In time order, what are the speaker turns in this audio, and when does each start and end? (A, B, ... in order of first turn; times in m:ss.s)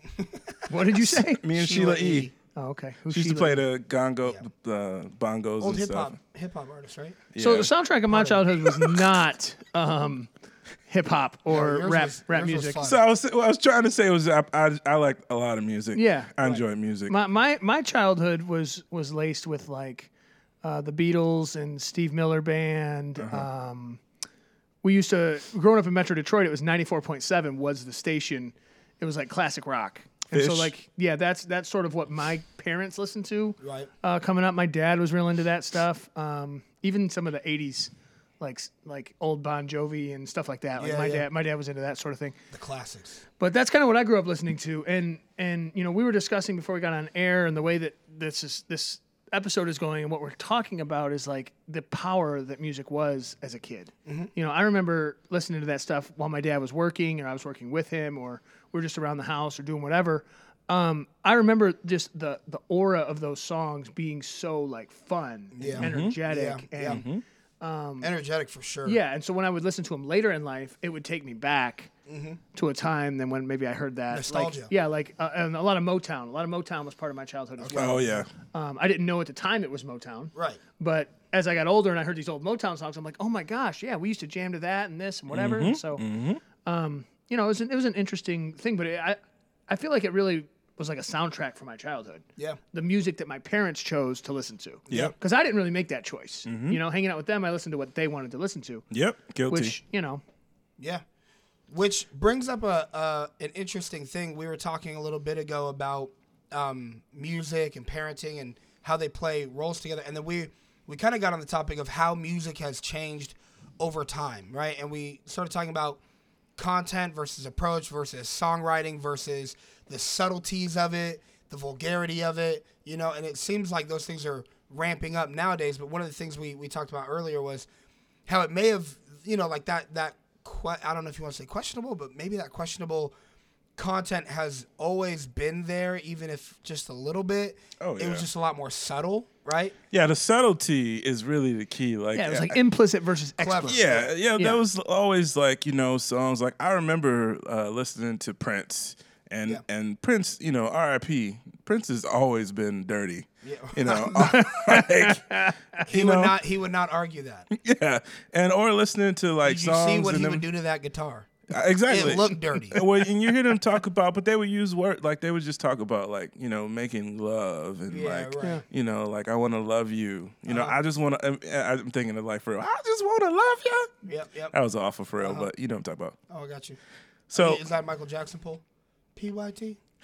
0:00.2-0:00.7 A
0:00.7-0:01.4 B
0:00.9-0:02.3 C
0:01.5-0:02.3 A
0:02.5-0:03.6 B
0:03.1-0:06.1 C
0:05.6-0:07.2 A
0:07.3-0:07.7 C
0:07.4-0:10.3 B
0:08.1-0:08.4 A
0:08.6-0:09.0 C
0:10.9-0:12.8 B
0:11.5-0:13.0 A
0:12.8-0:17.1 C
0:15.9-0:16.3 B
0:17.1-0:20.1 B
0:20.6-0:24.0 B
0:23.2-0:23.5 C
0:24.8-0:42.3 B
0:30.3-0:30.7 C
0:33.6-0:33.9 A
0:40.8-0:41.2 A
0:42.5-0:43.2 A
0:43.4-1:07.0 B
0:54.0-0:54.3 A
1:05.5-1:07.0 A
1:05.8-1:06.2 C
1:06.9-1:07.2 C
1:07.6-1:08.1 B
1:08.0-1:09.0 A
1:08.8-1:11.9 B
1:12.1-1:12.4 A
1:12.5-1:26.0 B
1:14.1-1:14.7 A
1:17.6-1:18.2 A
1:17.7-1:18.3 C
1:20.3-1:20.6 A
1:25.3-1:26.4 C
1:26.6-1:38.8 B
1:34.9-1:35.1 A
1:36.4-1:36.8 C
1:38.9-1:39.7 C
1:39.5-1:40.2 B
1:41.7-1:56.0 A
1:56.6-2:07.7 A
2:08.3-2:13.1 A
2:13.8-2:19.7 A
2:17.8-2:18.3 C
2:19.9-2:22.6 C
2:22.1-2:24.6 B
2:23.4-2:24.1 A
2:23.6-2:35.2 C
2:33.4-2:34.4 A
2:33.9-2:35.8 B
2:35.8-2:37.5 A
2:35.9-2:36.4 C
2:37.5-2:40.4 C
2:39.4-2:41.3 A
2:41.5-2:53.9 C
2:41.9-2:42.8 A
2:47.9-2:48.6 A
2:50.5-2:50.8 A
2:54.0-2:54.5 A
2:54.5-2:56.2 C
2:55.2-2:55.5 A
2:56.3-2:56.8 A
2:57.3-2:57.6 C
2:57.3-2:58.6 A
2:59.2-2:59.8 A